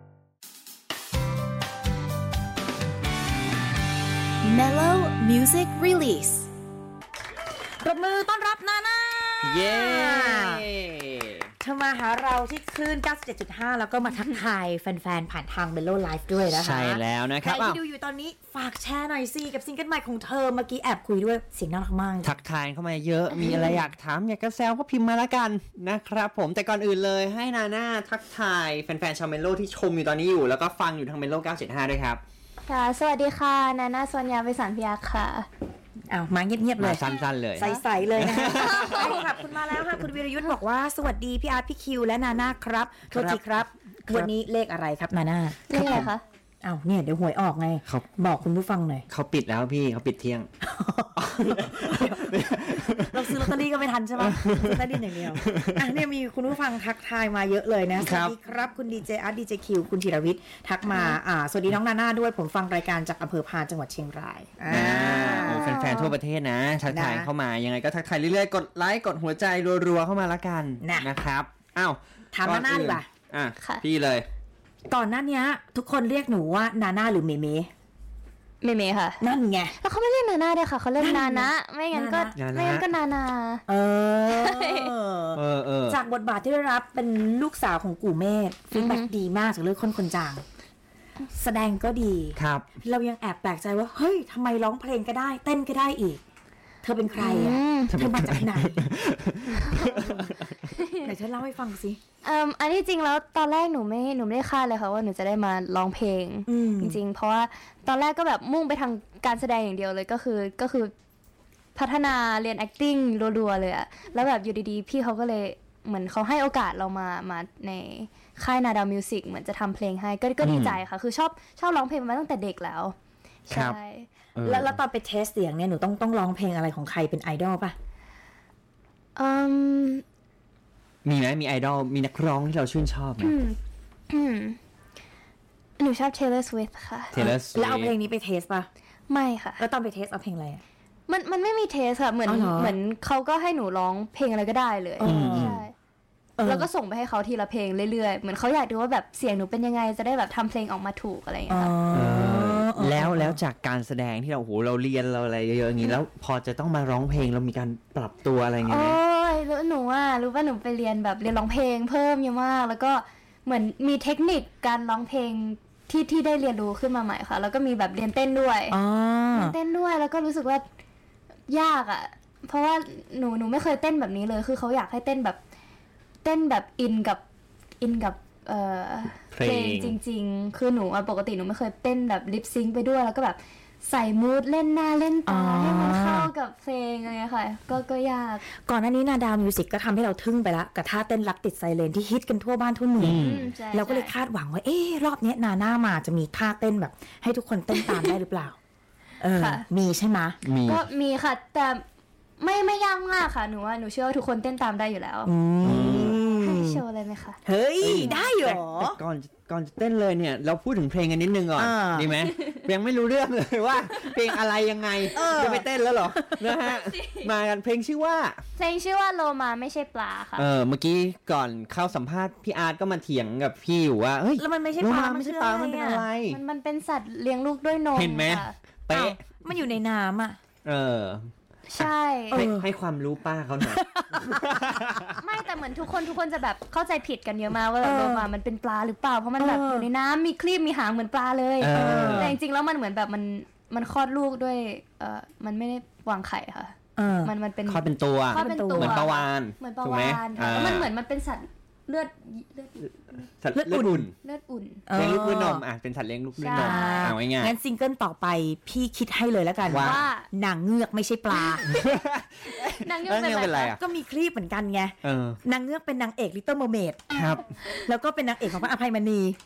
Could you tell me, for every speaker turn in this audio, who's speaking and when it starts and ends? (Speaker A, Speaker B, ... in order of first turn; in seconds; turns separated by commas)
Speaker A: 4.4-6.5, Speaker B: 7.8-10.6, Speaker C: 9.4-11.5, Speaker B: 11.6-22.3, Speaker D: 14.1-14.4, Speaker C: 16.5-17.8, Speaker C: 22.2-32.2, Speaker D: 23.3-23.8, Speaker D: 32.6-35.5, Speaker B: 36.1-46.1, Speaker C: 36.8-39.3, Speaker D: 37.6-37.8, Speaker D: 38.5-39.2, Speaker C: 43.1-44.3, Speaker D: 45.7-46.2, Speaker C: 45.8-46.1, Speaker B: 46.6-49.0, Speaker C: 49.1-50.5, Speaker B: 50.6-52.2, Speaker C: 51.1-53.6, Speaker B: 53.1-65.7, Speaker C: 54.2-55.9, Speaker C: 58.0-58.3, Speaker D: 60.9-61.2, Speaker C: 64.7-74.3, Speaker D: 65.1-66.2, Speaker B: 66.9-67.3, Speaker B: 70.8-71.1, Speaker B: 72.3-73.1, Speaker D: 73.6-73.8, Speaker B: 74.9-77.7, Speaker D: 78.6-79.2, Speaker B: 79.2-79.8, Speaker D: 79.8-83.6, Speaker B: 81.0-82.3, Speaker C: 82.3-82.9, Speaker B: 83.7-90.4, Speaker D: 84.3-84.9, Speaker C: 85.3-86.0, Speaker D: 88.7-89.1, Speaker B: 91.3-96.2, Speaker C: 92.3-92.7, Speaker B: 96.8-98.9, Speaker D: 97.2-98.0, Speaker C: 97.9-100.7, Speaker B: 99.5-102.0, Speaker D: 100.7-101.1, Speaker D: 102.2-110.9, Speaker B: 106.5-107.0, Speaker D: 111.7-122.9, Speaker C: 120.4-120.8, Speaker D: 123.5-124.1, Speaker C: 123.5-123.8, Speaker C: 124.3-124.8, Speaker B: 124.4-127.7, Speaker D: 129.2-130.0, Speaker C: 131.0-133.3, Speaker D: 133.2-133.6, Speaker D: 134.1-134.6, Speaker D: 135.8-137.1, Speaker C: 137.1-137.9, Speaker B: 137.1-138.7, Speaker D: 139.1-139.6, Speaker B: 139.6-140.6, Speaker D: 141.1-145.7, Speaker B: 142.2-142.7, Speaker B: 145.0-145.6, Speaker C: 145.0-145.6, Speaker B: 146.4-146.7, Speaker D: 146.4-151.7, Speaker B: 151.5-153.4, Speaker C: 151.9-159.0, Speaker D: 158.6-168.8, Speaker B: 168.7-169.6, Speaker D: 169.3-170.6, Speaker D: 171.5-175.4, Speaker D: 176.2-177.2, Speaker D: 177.8-188.4, Speaker C: 179.3-180.0, Speaker B: 185.2-186.3, Speaker B: 188.6-198.6, Speaker C: 193.0-193.5, Speaker D: 193.1-194.1, Speaker D: 197.8-198.1, Speaker B: 199.2-200.4, Speaker D: 199.3-199.7, Speaker C: 200.4-200.8, Speaker D: 200.6-201.8, Speaker D: 202.4-205.3, Speaker B: 205.2-206.8, Speaker C: 205.6-206.2, Speaker D: 205.9-207.4, Speaker B: 207.4-209.0, Speaker C: 207.8-218.4, Speaker B: 211.6-212.1, Speaker B: 215.1-216.5, Speaker D: 216.5-217.3, Speaker D: 218.6-220.5, Speaker C: 220.3-226.4, Speaker B: 224.4-226.1, Speaker D: 226.3-228.5, Speaker C: 227.9-229.2, Speaker B: 228.9-230.4, Speaker C: 230.6-235.2, Speaker D: 231.7-232.4, Speaker B: 232.3-232.7, Speaker B: 233.7-234.6, Speaker D: 235.2-253.2, Speaker B: 237.8-238.3, Speaker B: 239.4-239.9, Speaker C: 241.6-242.3, Speaker B: 241.7-242.4, Speaker B: 247.0-247.3, Speaker C: 247.7-250.9, Speaker B: 248.3-249.0, Speaker C: 253.4-254.1, Speaker B: 253.5-254.1, Speaker D: 254.2-254.8, Speaker B: 254.9-255.6, Speaker C: 254.9-257.5, Speaker D: 256.4-257.2, Speaker B: 256.5-261.7, Speaker C: 259.7-260.1, Speaker D: 259.7-260.3, Speaker C: 261.6-263.8, Speaker D: 262.5-263.8, Speaker B: 263.7-267.1, Speaker C: 265.0-265.4, Speaker C: 267.1-267.4, Speaker B: 267.7-269.4